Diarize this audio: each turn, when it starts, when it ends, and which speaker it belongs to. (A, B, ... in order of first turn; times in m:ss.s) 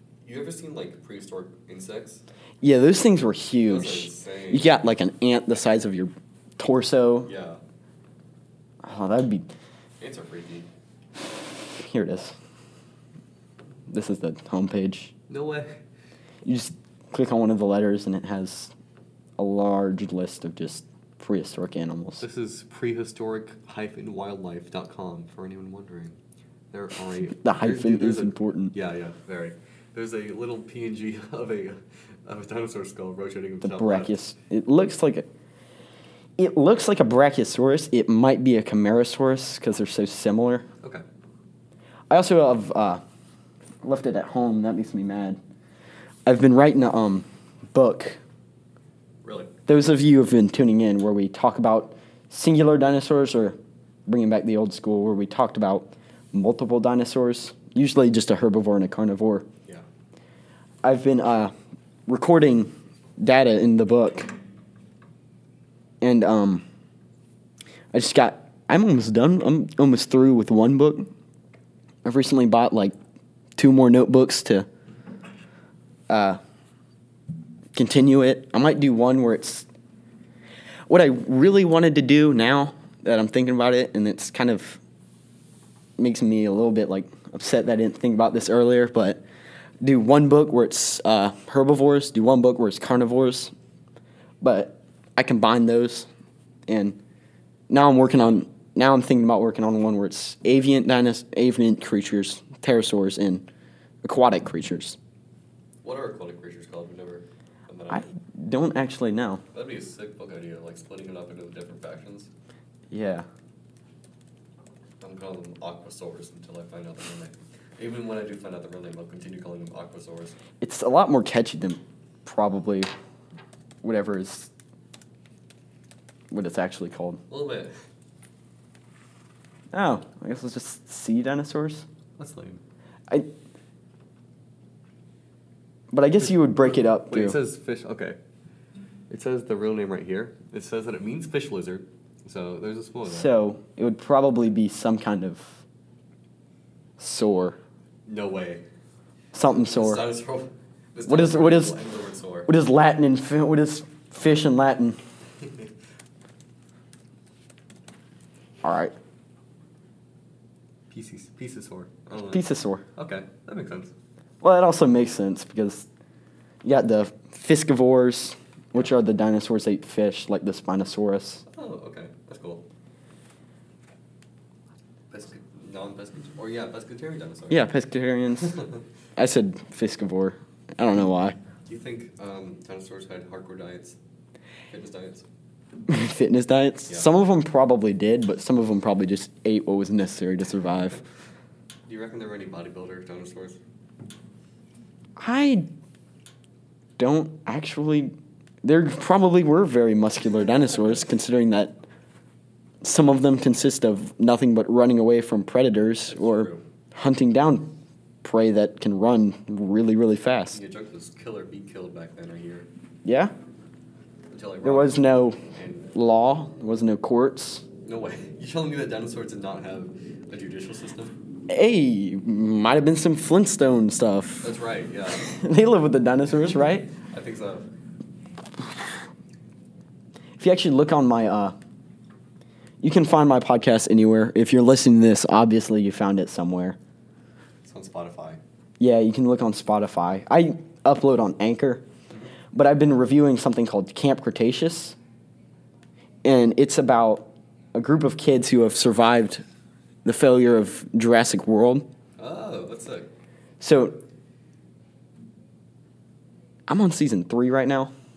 0:00.2-0:02.2 A
0:02.6-0:07.3 B
0:03.6-0:04.7 A
0:07.2-0:07.6 A
0:08.8-0:09.5 B
0:10.0-0:10.7 A
0:11.8-0:12.3 B
0:13.9-0:15.1 B
0:15.3-0:15.7 A
0:16.4-0:18.7 B
0:19.4-0:22.2 B
0:22.2-0:26.2 A
0:26.7-0:34.1 A
0:27.3-0:28.8 B
0:33.6-0:35.3 B
0:36.4-0:40.6 B
0:42.1-0:43.0 B
0:43.8-0:45.4 B
0:46.2-0:48.2 B
0:49.2-0:49.5 A
0:49.7-0:59.4 B
1:00.8-1:01.5 B
1:02.1-1:04.3 B
1:06.0-1:06.6 B
1:07.9-1:11.1 B
1:12.0-1:12.9 B
1:13.6-1:14.7 B
1:16.1-1:16.4 B
1:17.7-1:19.7 B
1:20.9-1:24.8 B
1:26.0-1:29.2 B
1:29.8-1:33.5 B
1:34.4-1:36.1 B
1:36.7-1:37.0 B
1:37.7-1:43.4 B
1:44.0-1:45.0 B
1:45.8-1:48.0 A
1:47.9-1:49.4 B
1:49.5-1:52.3 A
1:52.9-1:53.3 B
1:55.0-2:00.4 A
2:00.6-2:02.9 B
2:03.8-2:04.5 B
2:06.3-2:07.2 B
2:07.3-2:07.7 A
2:09.7-2:11.8 B
2:12.2-2:12.6 A
2:15.9-2:17.4 B
2:16.2-2:18.2 A
2:19.1-2:23.3 A
2:23.0-2:25.6 B
2:27.0-2:27.6 B
2:28.0-2:28.6 A
2:29.3-2:30.0 B
2:29.4-2:32.5 A
2:31.0-2:31.8 B
2:32.5-2:35.0 B
2:35.4-2:35.7 A
2:38.6-2:38.9 B
2:40.9-2:43.9 A
2:42.3-2:42.8 B
2:44.4-2:45.9 B
2:46.6-2:51.4 B
2:51.5-2:52.6 A
2:55.1-2:57.7 A
2:57.5-2:58.6 B
2:58.4-2:58.8 A
2:59.2-3:01.4 B
3:01.7-3:04.0 A
3:04.7-3:05.2 A
3:05.9-3:11.0 B
3:11.9-3:13.6 A
3:15.2-3:15.7 B
3:17.0-3:18.1 B
3:18.6-3:21.8 B
3:22.8-3:27.7 B
3:26.0-3:26.6 A
3:28.2-3:30.6 B
3:30.5-3:32.7 A
3:33.0-3:33.3 B
3:34.3-3:35.0 A
3:34.6-3:35.4 B
3:35.5-3:35.9 A
3:35.9-3:37.6 B
3:37.8-3:41.1 A
3:41.5-3:44.5 B
3:44.4-3:45.3 A
3:45.2-3:46.9 B
3:46.9-3:47.6 A
3:50.4-3:51.5 B
3:52.8-3:56.8 B
3:57.6-3:58.4 A
3:58.8-4:01.8 B
4:02.5-4:05.0 B
4:06.2-4:09.4 B
4:10.0-4:11.9 B
4:12.2-4:13.1 A
4:13.6-4:14.0 B
4:16.7-4:17.9 B